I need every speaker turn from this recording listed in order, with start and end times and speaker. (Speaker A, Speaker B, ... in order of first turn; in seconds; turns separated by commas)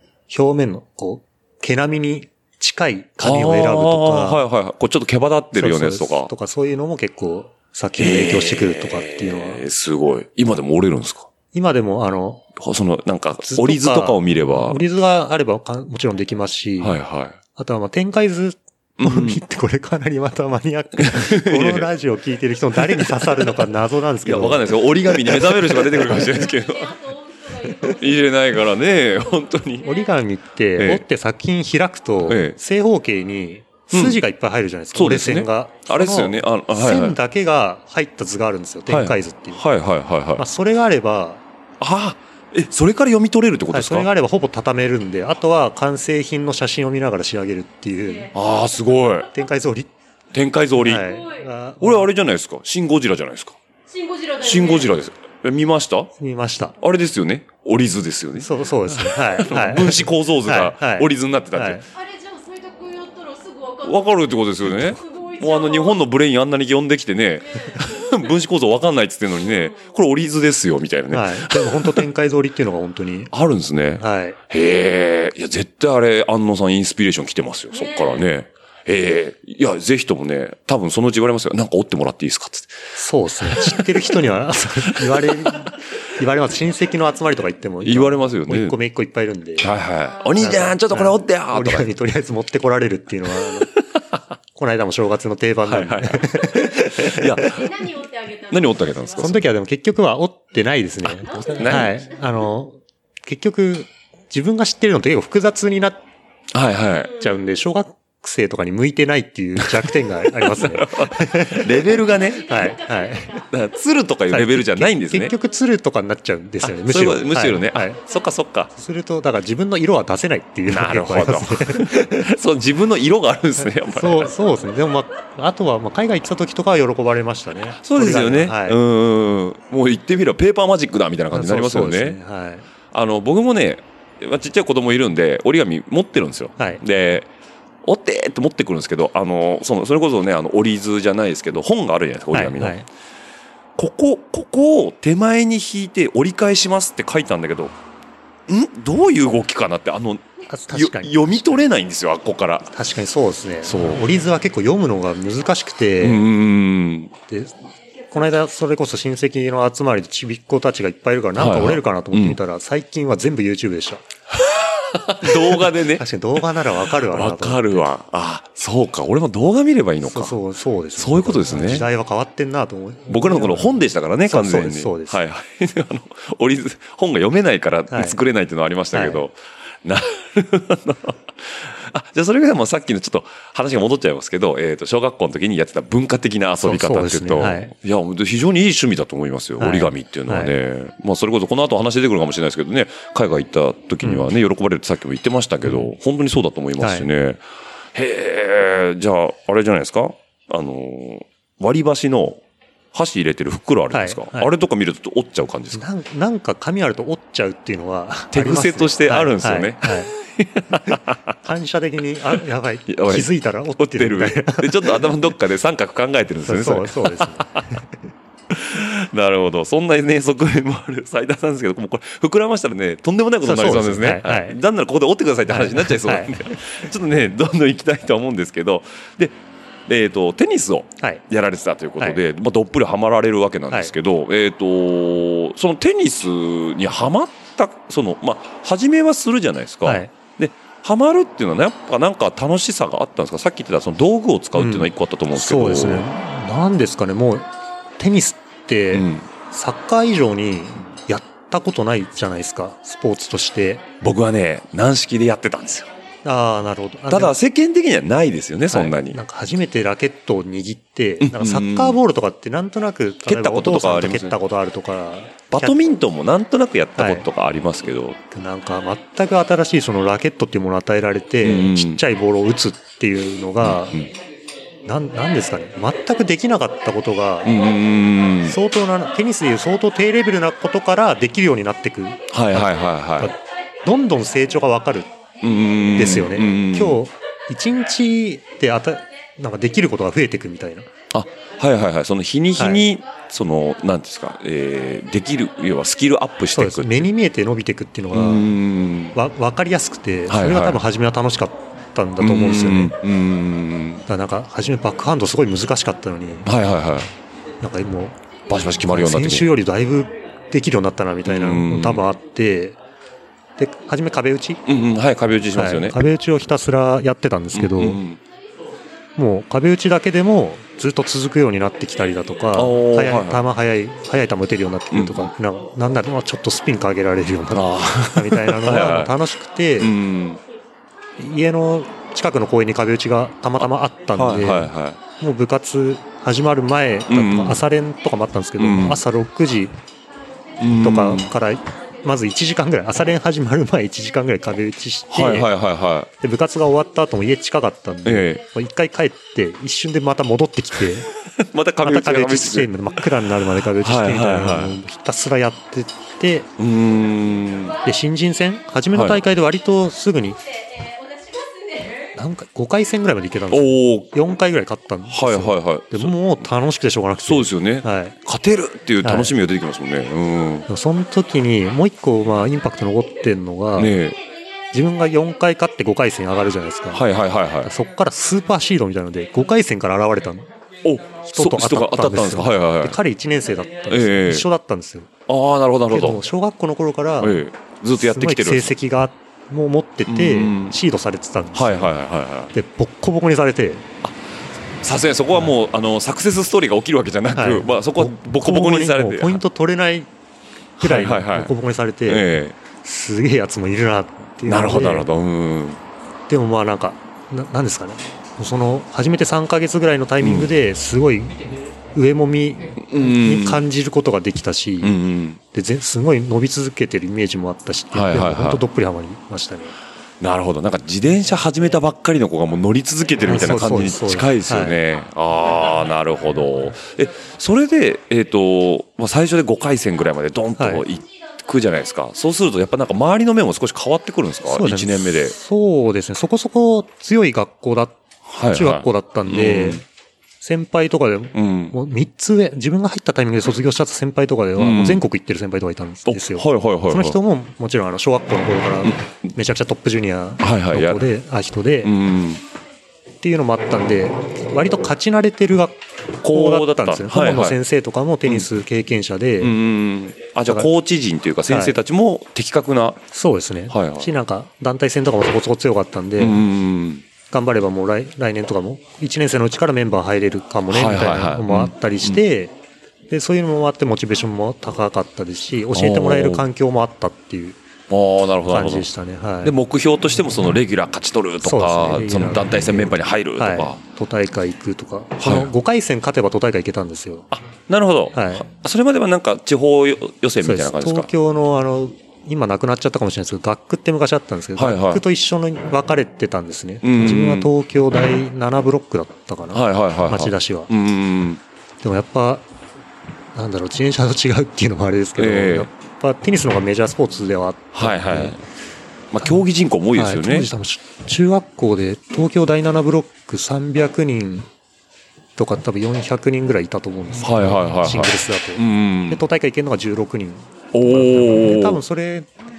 Speaker A: 0.3-4.4, Speaker B: 3.2-6.3, Speaker A: 5.5-9.6, Speaker B: 8.0-11.3, Speaker A: 11.5-12.4, Speaker B: 12.6-14.8, Speaker A: 13.4-17.0, Speaker B: 16.8-17.4, Speaker A: 17.5-25.9, Speaker B: 19.0-19.4, Speaker B: 21.0-21.9, Speaker B: 22.7-23.7, Speaker B: 24.2-27.0, Speaker C: 26.0-30.1, Speaker B: 27.7-29.9, Speaker A: 29.8-39.6, Speaker B: 30.8-31.0, Speaker B: 32.2-32.6, Speaker B: 33.9-34.2, Speaker B: 34.9-37.2, Speaker B: 38.9-40.4, Speaker A: 40.4-41.4, Speaker B: 41.8-44.1, Speaker A: 43.7-48.3, Speaker B: 48.3-49.3, Speaker A: 49.3-49.9, Speaker B: 50.3-51.1, Speaker A: 50.8-52.1, Speaker C: 51.0-51.5, Speaker B: 51.8-53.6, Speaker C: 53.9-55.0, Speaker B: 54.4-56.1, Speaker A: 56.2-56.8, Speaker B: 56.8-61.8, Speaker A: 58.4-61.8, Speaker C: 61.9-66.0, Speaker B: 63.8-72.0, Speaker C: 67.5-68.3, Speaker C: 69.4-69.9, Speaker A: 71.1-73.3, Speaker B: 73.3-82.8, Speaker A: 74.0-74.4, Speaker C: 77.7-78.3, Speaker A: 82.9-89.7, Speaker B: 83.4-84.1, Speaker B: 84.9-85.5, Speaker B: 87.8-88.8, Speaker B: 89.6-91.9, Speaker C: 90.1-90.4, Speaker A: 90.4-93.7, Speaker B: 93.4-94.2, Speaker A: 94.5-97.5, Speaker B: 95.6-97.9, Speaker C: 97.5-99.3, Speaker B: 98.5-99.4, Speaker A: 99.2-106.0, Speaker B: 101.2-101.9, Speaker C: 101.2-102.1, Speaker B: 106.5-107.1, Speaker A: 107.2-111.9, Speaker B: 109.6-112.8, Speaker C: 111.9-113.7, Speaker A: 112.5-113.4, Speaker B: 113.5-115.3, Speaker A: 114.3-118.0, Speaker B: 116.6-118.7, Speaker A: 118.7-122.3, Speaker B: 120.7-124.3, Speaker A: 123.6-128.8, Speaker B: 127.7-132.2, Speaker A: 131.3-132.7, Speaker B: 132.9-137.3, Speaker B: 137.8-142.8, Speaker A: 142.3-142.9, Speaker B: 143.8-147.8, Speaker B: 148.5-152.7, Speaker A: 150.5-151.7, Speaker A: 152.7-156.3, Speaker B: 153.6-154.1, Speaker B: 156.0-157.1, Speaker A: 157.3-157.6, Speaker A: 158.1-164.0, Speaker B: 161.3-162.4, Speaker B: 164.3-170.4, Speaker A: 165.2-167.8, Speaker A: 170.0-175.2, Speaker B: 170.9-171.9, Speaker B: 173.1-202.4, Speaker A: 177.9-178.2, Speaker A: 178.9-179.2, Speaker A: 186.6-187.7, Speaker A: 189.6-190.5, Speaker A: 194.0-194.3, Speaker A: 196.8-197.1, Speaker B: 202.9-205.8, Speaker A: 203.9-204.5, Speaker A: 205.7-210.1, Speaker B: 208.3-211.3, Speaker A: 211.4-215.1, Speaker B: 212.9-217.6, Speaker A: 216.4-217.9, Speaker B: 218.5-246.1, Speaker A: 223.4-224.6, Speaker A: 225.5-226.5, Speaker A: 239.8-240.1, Speaker A: 244.5-253.8, Speaker B: 248.9-249.3, Speaker B: 254.0-255.9, Speaker A: 256.2-257.4, Speaker B: 257.1-259.2, Speaker A: 258.7-265.8, Speaker B: 261.2-262.0, Speaker B: 263.2-264.4, Speaker B: 265.5-268.2, Speaker A: 266.9-267.2, Speaker A: 268.3-274.0, Speaker B: 271.4-272.0, Speaker B: 273.6-274.1, Speaker A: 274.9-277.6, Speaker B: 277.4-278.6, Speaker A: 278.4-285.1, Speaker B: 282.3-283.3, Speaker B: 285.4-287.0, Speaker A: 285.9-290.9, Speaker B: 291.1-297.1, Speaker A: 292.6-292.8, Speaker A: 296.5-298.5, Speaker B: 298.1-299.1, Speaker A: 299.1-302.9, Speaker B: 300.3-300.8, Speaker B: 302.2-304.0, Speaker A: 304.1-306.5, Speaker B: 306.4-307.1, Speaker A: 307.6-308.2, Speaker B: 308.5-309.5, Speaker A: 308.8-312.8, Speaker B: 311.2-312.0, Speaker A: 313.6-314.6, Speaker B: 314.6-316.0, Speaker A: 315.5-318.0, Speaker B: 317.5-318.2, Speaker A: 319.1-329.9, Speaker B: 322.5-323.4, Speaker B: 324.9-325.3, Speaker B: 327.5-329.1, Speaker B: 329.8-330.4, Speaker A: 331.2-339.8, Speaker B: 333.6-335.0, Speaker B: 337.1-337.6, Speaker B: 338.6-339.0, Speaker B: 340.6-341.3, Speaker A: 340.8-345.5, Speaker B: 345.1-346.1, Speaker A: 346.2-351.1, Speaker B: 348.0-348.4, Speaker B: 351.1-353.0, Speaker A: 351.8-356.5, Speaker B: 353.7-354.8, Speaker B: 356.6-357.8, Speaker A: 357.8-360.4, Speaker B: 358.9-359.2, Speaker C: 361.0-362.0, Speaker A: 362.1-368.1, Speaker B: 363.5-364.2, Speaker B: 365.1-366.3, Speaker B: 367.2-370.7, Speaker A: 369.0-369.3, Speaker A: 370.7-373.9, Speaker B: 373.8-374.2, Speaker A: 374.7-377.0, Speaker B: 376.9-377.7, Speaker A: 377.6-380.5, Speaker B: 380.8-383.0, Speaker A: 381.2-385.1, Speaker B: 383.9-384.5, Speaker B: 385.3-386.2, Speaker A: 385.9-387.4, Speaker B: 387.2-388.7, Speaker A: 387.9-391.9, Speaker B: 390.1-390.8, Speaker B: 391.5-392.5, Speaker A: 392.5-393.9, Speaker B: 394.8-399.4, Speaker A: 397.3-400.1, Speaker B: 400.8-401.5, Speaker A: 400.8-405.1, Speaker B: 402.1-402.6, Speaker B: 404.4-405.8, Speaker A: 406.3-411.4, Speaker B: 410.2-410.5, Speaker A: 411.9-415.0, Speaker B: 412.8-413.6, Speaker B: 414.8-415.4, Speaker A: 415.5-419.8, Speaker B: 417.9-418.6, Speaker B: 420.2-435.3, Speaker A: 423.2-424.8, Speaker A: 430.6-430.8, Speaker A: 434.4-438.0, Speaker B: 438.3-439.8, Speaker A: 438.5-439.8, Speaker A: 440.4-451.9, Speaker B: 441.3-441.8, Speaker B: 444.6-445.0, Speaker B: 446.1-447.2, Speaker B: 448.8-449.3, Speaker B: 450.4-451.1, Speaker B: 451.8-452.4, Speaker A: 453.2-459.6, Speaker B: 456.2-457.6, Speaker B: 459.4-463.0, Speaker A: 461.5-461.8, Speaker A: 463.1-466.4, Speaker B: 463.7-464.1, Speaker B: 466.2-467.0, Speaker A: 467.3-472.5, Speaker B: 470.7-472.2, Speaker A: 473.1-477.6, Speaker B: 475.7-476.5, Speaker B: 477.9-478.9, Speaker A: 478.5-479.5, Speaker B: 479.4-483.8, Speaker A: 481.4-487.3, Speaker B: 485.2-485.5, Speaker B: 487.3-491.1, Speaker A: 488.1-488.5, Speaker A: 490.4-500.7, Speaker B: 494.6-495.0, Speaker B: 496.8-497.5, Speaker B: 499.5-501.4, Speaker A: 501.8-502.4, Speaker A: 503.3-508.4, Speaker B: 505.2-505.7, Speaker B: 507.7-508.4, Speaker B: 509.1-510.5, Speaker A: 509.9-514.5, Speaker A: 515.4-522.3, Speaker B: 517.2-519.2, Speaker B: 520.7-521.8